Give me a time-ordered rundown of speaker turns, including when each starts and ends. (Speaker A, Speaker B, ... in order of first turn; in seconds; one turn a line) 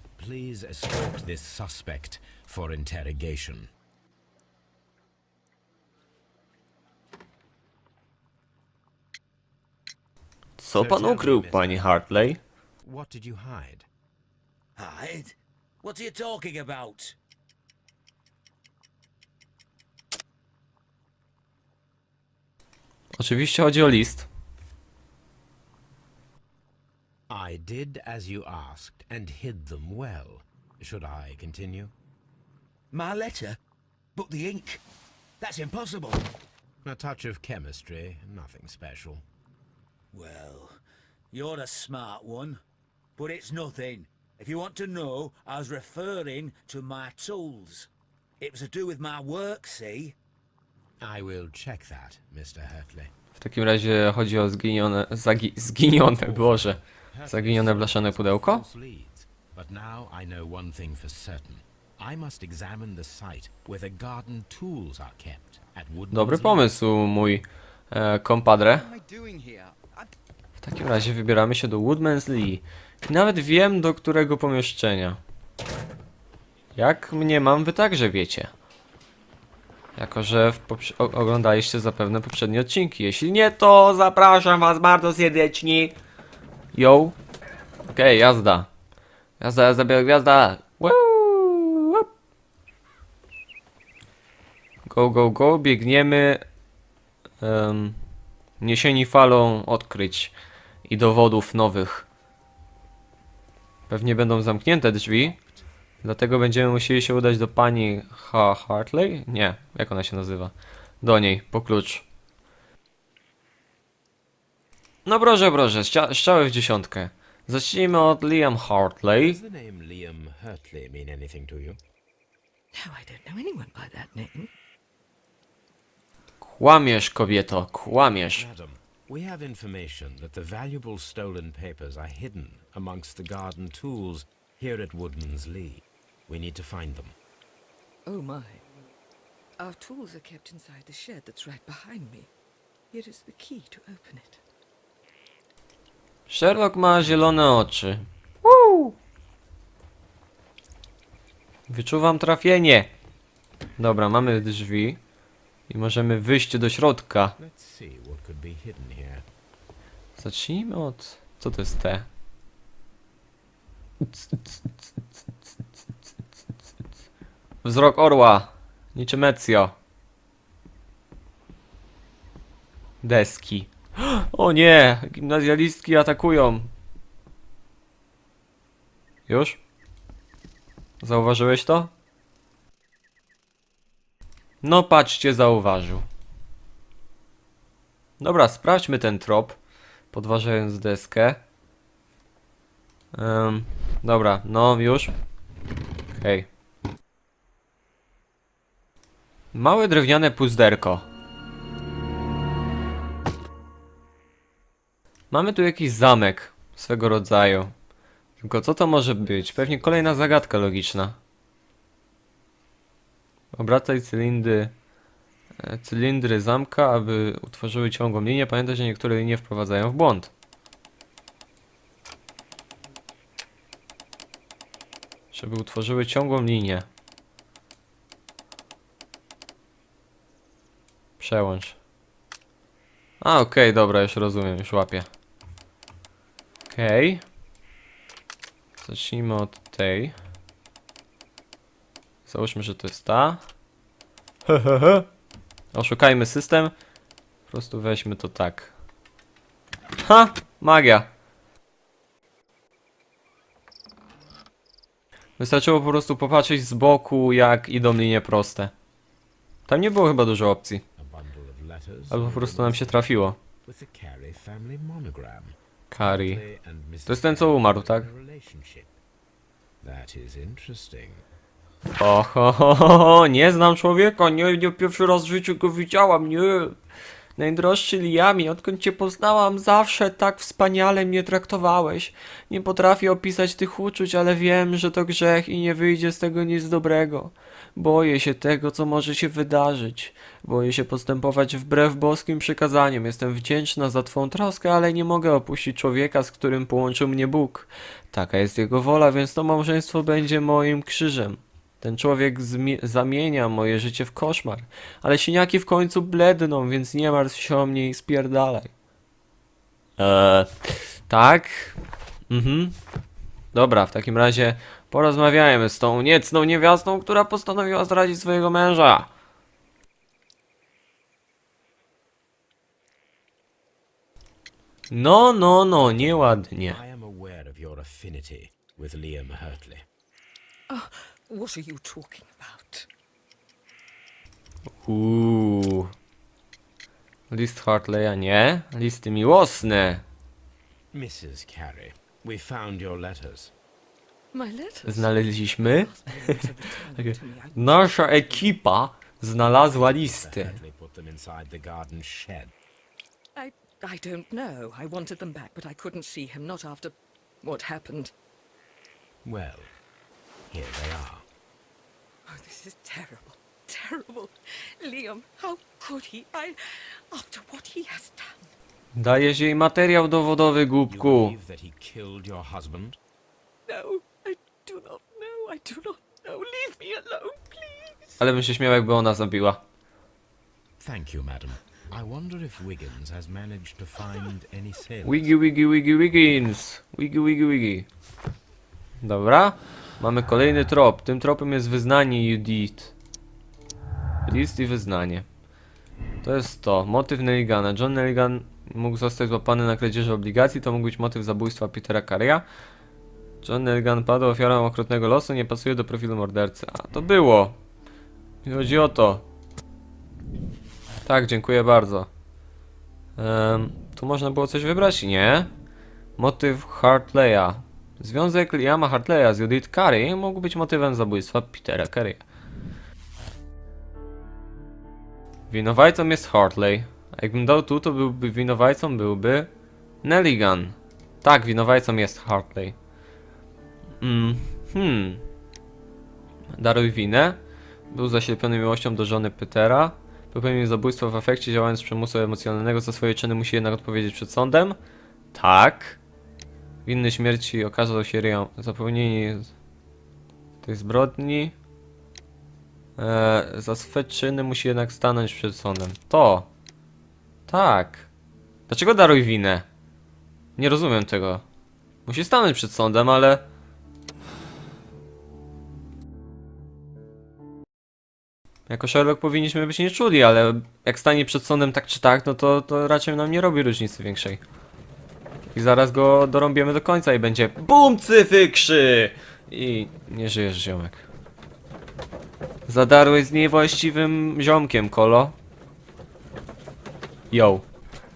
Speaker A: 0.2-3.7
Speaker B: 10.6-12.4
Speaker A: 10.7-12.0
Speaker A: 12.8-13.9
Speaker C: 14.8-17.2
Speaker B: 23.2-24.3
Speaker A: 27.3-31.9
Speaker C: 32.9-33.6
Speaker C: 34.2-34.8
Speaker C: 35.4-36.3
Speaker A: 36.8-39.2
Speaker C: 40.1-40.8
Speaker C: 41.3-42.6
Speaker C: 43.2-47.9
Speaker C: 48.4-50.2
Speaker A: 51.0-53.1
Speaker B: 53.4-58.6
Speaker A: 56.1-66.7
Speaker B: 66.1-68.9
Speaker C: 68.9-70.0
Speaker B: 70.6-75.2
Speaker B: 76.8-78.5
Speaker B: 80.0-86.0
Speaker B: 86.7-87.2
Speaker B: 87.9-88.7
Speaker B: 89.4-92.1
Speaker B: 94.9-96.4
Speaker B: 97.4-98.0
Speaker B: 98.6-100.3
Speaker B: 100.9-102.1
Speaker B: 103.9-105.4
Speaker B: 106.0-112.0
Speaker B: 115.0-119.4
Speaker A: 119.2-121.8
Speaker D: 122.7-124.5
Speaker B: 126.4-128.5
Speaker A: 128.3-137.2
Speaker D: 138.1-138.7
Speaker D: 139.6-142.3
Speaker D: 142.9-144.4
Speaker B: 146.3-148.9
Speaker B: 151.7-152.9
Speaker B: 153.8-155.0
Speaker B: 155.7-157.4
Speaker A: 157.4-159.3
Speaker B: 160.2-162.1
Speaker B: 164.1-164.6
Speaker B: 167.6-169.8
Speaker B: 173.0-176.7
Speaker B: 179.3-179.6
Speaker B: 181.0-181.9
Speaker B: 184.6-186.1
Speaker B: 188.2-189.6
Speaker B: 190.1-191.4
Speaker B: 193.1-195.1
Speaker B: 196.1-196.5
Speaker B: 199.5-201.1
Speaker B: 205.3-207.7
Speaker B: 208.4-211.2
Speaker A: 209.2-210.9
Speaker B: 213.5-214.7
Speaker B: 215.6-220.3
Speaker B: 225.3-226.9
Speaker B: 231.2-231.8
Speaker B: 233.2-235.1
Speaker B: 236.7-237.2
Speaker B: 238.8-240.2
Speaker B: 242.3-243.4
Speaker B: 244.5-245.1
Speaker B: 245.7-246.7
Speaker B: 247.5-248.7
Speaker B: 250.0-251.1
Speaker B: 255.4-258.7
Speaker B: 259.7-260.8
Speaker A: 261.0-263.0
Speaker B: 262.1-263.4
Speaker A: 263.6-269.0
Speaker B: 265.9-266.4
Speaker B: 267.1-268.1
Speaker A: 269.8-271.2
Speaker B: 272.0-276.8
Speaker B: 277.4-308.7
Speaker B: 310.0-310.5
Speaker B: 311.1-311.8
Speaker B: 312.3-312.8
Speaker B: 313.5-319.1
Speaker B: 324.9-326.8
Speaker A: 325.8-329.9
Speaker D: 330.7-332.9
Speaker B: 334.8-335.9
Speaker B: 337.3-340.0
Speaker A: 340.9-343.5
Speaker D: 344.3-348.6
Speaker B: 344.9-346.4
Speaker B: 347.0-350.6
Speaker A: 349.5-352.5
Speaker D: 353.4-358.1
Speaker A: 359.2-359.8
Speaker A: 360.5-361.3
Speaker D: 362.3-368.5
Speaker B: 368.9-371.4
Speaker A: 370.9-373.0
Speaker D: 373.7-378.2
Speaker B: 378.2-379.6
Speaker A: 380.8-385.4
Speaker B: 385.0-387.9
Speaker B: 389.0-392.9
Speaker B: 394.3-395.3
Speaker B: 396.2-402.4
Speaker B: 403.4-407.6
Speaker B: 408.4-409.2
Speaker B: 411.1-412.1
Speaker B: 413.2-415.5
Speaker B: 416.2-422.2
Speaker B: 425.5-429.5
Speaker B: 430.0-432.8
Speaker B: 434.0-435.2
Speaker B: 436.6-437.4
Speaker B: 437.9-444.8
Speaker B: 445.3-446.0
Speaker B: 446.9-449.5
Speaker B: 450.6-451.6
Speaker B: 453.0-456.5
Speaker B: 457.5-458.1
Speaker B: 458.7-459.7
Speaker B: 460.6-461.4
Speaker B: 462.1-463.4
Speaker B: 468.7-474.4
Speaker B: 475.5-481.1
Speaker B: 482.7-485.4
Speaker B: 487.3-487.6